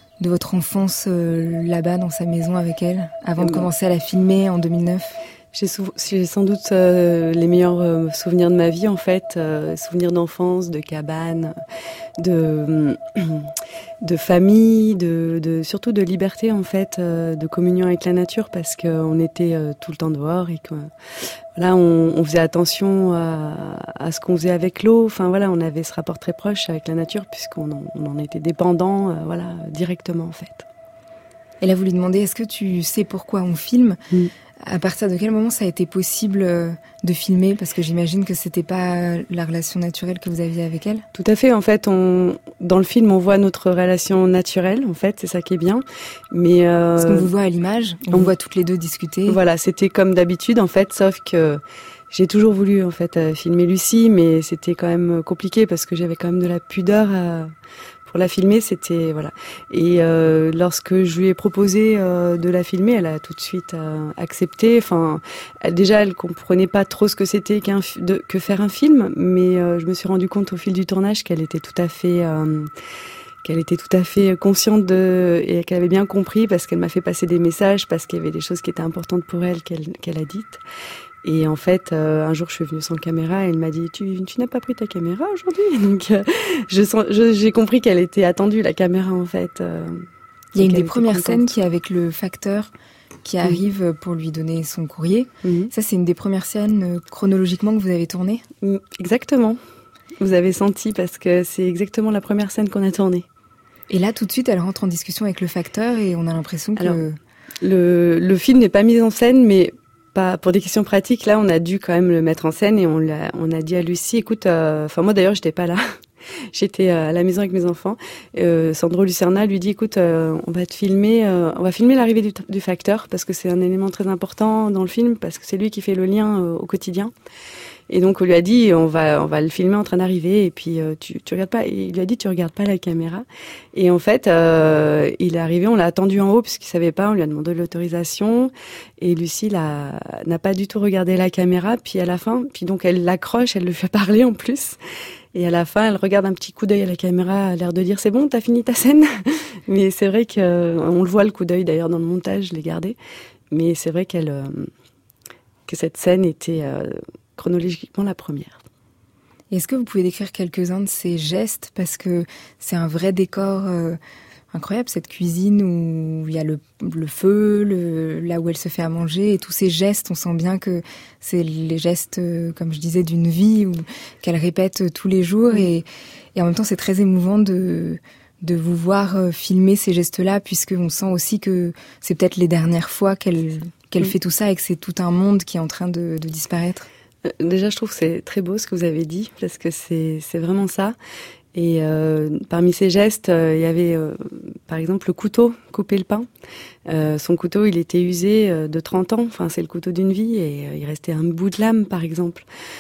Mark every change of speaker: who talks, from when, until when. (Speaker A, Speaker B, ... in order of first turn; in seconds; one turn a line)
Speaker A: 0.2-5.2
Speaker B: 3.4-3.7
Speaker B: 5.5-11.6
Speaker B: 12.2-20.9
Speaker B: 21.6-30.7
Speaker A: 31.6-34.0
Speaker A: 34.6-41.1
Speaker B: 41.1-47.3
Speaker A: 47.0-49.4
Speaker B: 49.3-57.5
Speaker B: 58.1-72.7
Speaker B: 73.4-80.6
Speaker B: 81.2-91.5
Speaker A: 90.5-92.7
Speaker A: 93.2-98.4
Speaker B: 95.4-95.7
Speaker B: 98.6-99.6
Speaker B: 100.2-103.2
Speaker A: 103.9-107.2
Speaker B: 107.6-115.8
Speaker B: 116.5-127.1
Speaker B: 127.9-144.8
Speaker B: 145.3-153.0
Speaker B: 153.5-154.7
Speaker B: 155.7-158.6
Speaker A: 159.5-164.0
Speaker A: 164.5-186.9
Speaker B: 187.2-191.0
Speaker B: 191.5-196.3
Speaker B: 196.9-202.5